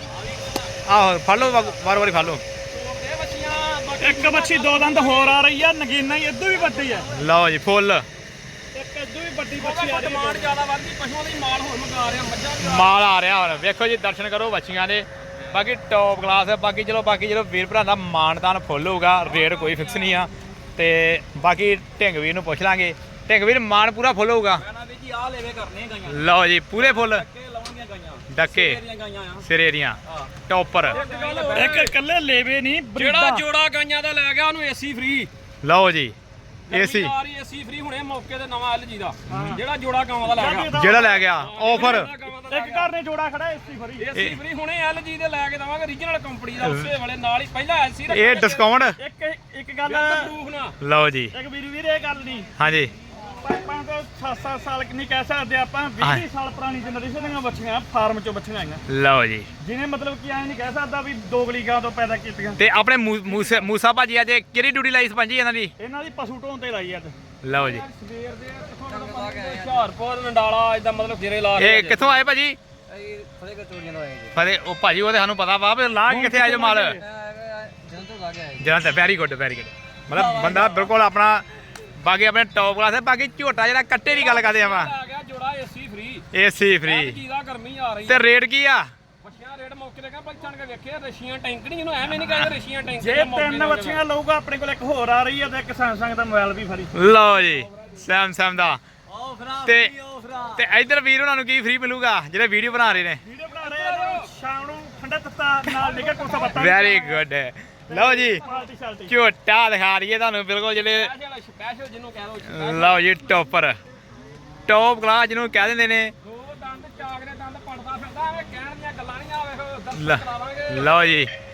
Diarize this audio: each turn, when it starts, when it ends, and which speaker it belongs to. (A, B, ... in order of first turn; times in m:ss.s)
0:00.9-0:02.4 A
0:02.7-0:05.4 B
0:04.0-0:07.1 C
0:06.6-0:07.0 B
0:07.1-0:08.0 A
0:08.7-0:10.6 C
0:09.6-0:13.0 B
0:12.6-0:24.6 A
0:19.2-0:20.3 B
0:24.7-0:26.2 D
0:24.8-0:25.7 B
0:26.1-0:27.2 A
0:27.0-0:29.2 D
0:27.4-0:28.2 B
0:28.3-0:28.8 A
0:28.7-0:29.4 B
0:29.4-0:31.0 A
0:30.9-0:32.0 B
0:31.0-0:31.6 D
0:31.5-0:33.4 C
0:33.0-0:35.3 B
0:35.6-0:36.2 A
0:36.7-0:42.9 B
0:36.7-0:37.1 A
0:39.3-0:39.6 C
0:40.3-0:41.3 C
0:40.7-0:42.1 A
0:42.5-0:44.1 C
0:44.0-0:48.8 B
0:46.6-0:46.9 A
0:48.1-0:49.0 A
0:49.0-0:50.3 C
0:49.9-0:50.8 B
0:50.8-0:51.3 A
0:51.3-0:52.5 C
0:52.6-0:52.9 A
0:53.3-0:58.8 C
0:58.9-0:59.5 A
0:59.6-1:02.6 C
1:02.6-1:05.7 A
1:05.8-1:07.2 C
1:07.4-1:07.8 A
1:07.5-1:12.2 B
1:08.9-1:09.9 D
1:11.6-1:12.6 A
1:12.9-1:14.3 D
1:14.3-1:17.0 A
1:16.1-1:17.1 C
1:17.0-1:18.6 D
1:18.6-1:21.4 A
1:20.1-1:20.7 D
1:22.0-1:24.9 A
1:24.1-1:26.3 B
1:26.3-1:27.2 A
1:26.8-1:28.2 B
1:28.1-1:28.9 A
1:29.2-1:34.0 B
1:32.2-1:32.5 A
1:33.0-1:36.9 C
1:37.0-1:38.8 A
1:37.2-1:38.0 B
1:39.1-1:40.6 C
1:39.6-1:39.9 A
1:40.5-1:43.2 A
1:43.2-1:47.2 C
1:43.6-1:44.3 B
1:45.7-1:47.0 B
1:46.5-1:48.4 A
1:47.9-1:49.2 C
1:48.4-1:48.7 B
1:49.1-1:51.1 A
1:50.7-1:53.1 B
1:52.5-1:53.8 A
1:54.7-1:56.1 A
1:56.2-2:00.9 B
2:00.0-2:01.3 A